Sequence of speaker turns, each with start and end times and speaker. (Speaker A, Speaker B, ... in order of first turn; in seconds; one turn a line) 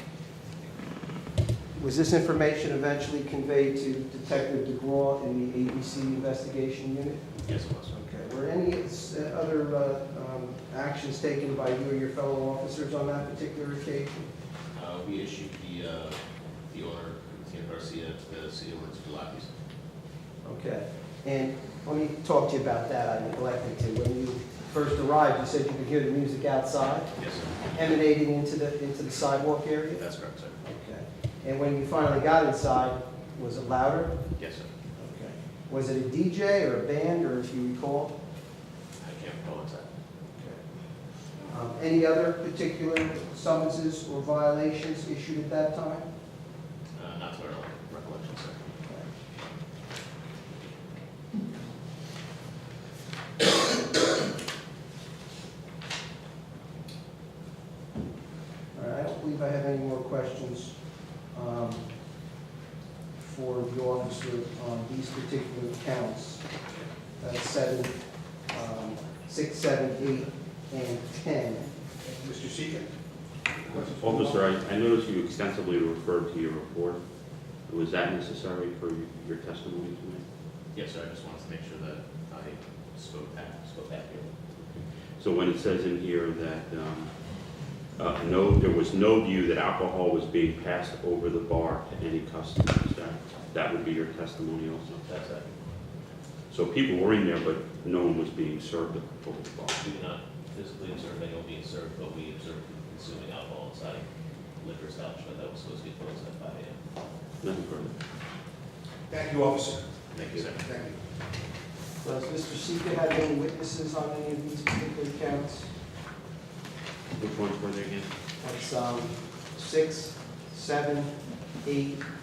Speaker A: 1.8-7.3
Speaker B: 7.4-7.9
Speaker A: 7.9-14.3
Speaker B: 14.7-16.2
Speaker B: 16.7-19.5
Speaker A: 20.4-27.1
Speaker B: 27.2-27.4
Speaker A: 27.7-30.0
Speaker B: 30.0-30.6
Speaker A: 30.6-34.2
Speaker B: 34.4-34.7
Speaker A: 35.0-38.1
Speaker B: 39.0-39.9
Speaker A: 41.5-46.0
Speaker B: 47.0-48.6
Speaker A: 58.7-60.8
Speaker A: 61.3-61.8
Speaker A: 63.2-66.4
Speaker A: 67.2-68.0
Speaker A: 68.5-71.7
Speaker C: 72.0-72.9
Speaker C: 73.7-74.2
Speaker D: 73.9-77.0
Speaker D: 77.7-80.2
Speaker B: 80.7-84.3
Speaker D: 85.2-87.1
Speaker D: 88.0-95.1
Speaker B: 95.1-95.5
Speaker D: 96.5-99.9
Speaker B: 99.8-104.0
Speaker B: 104.6-106.8
Speaker D: 107.4-107.9
Speaker C: 109.1-109.9
Speaker B: 110.1-110.7
Speaker C: 110.6-110.9
Speaker A: 112.0-115.7
Speaker D: 117.2-118.1
Speaker A: 118.4-121.1
Speaker A: 121.6-122.0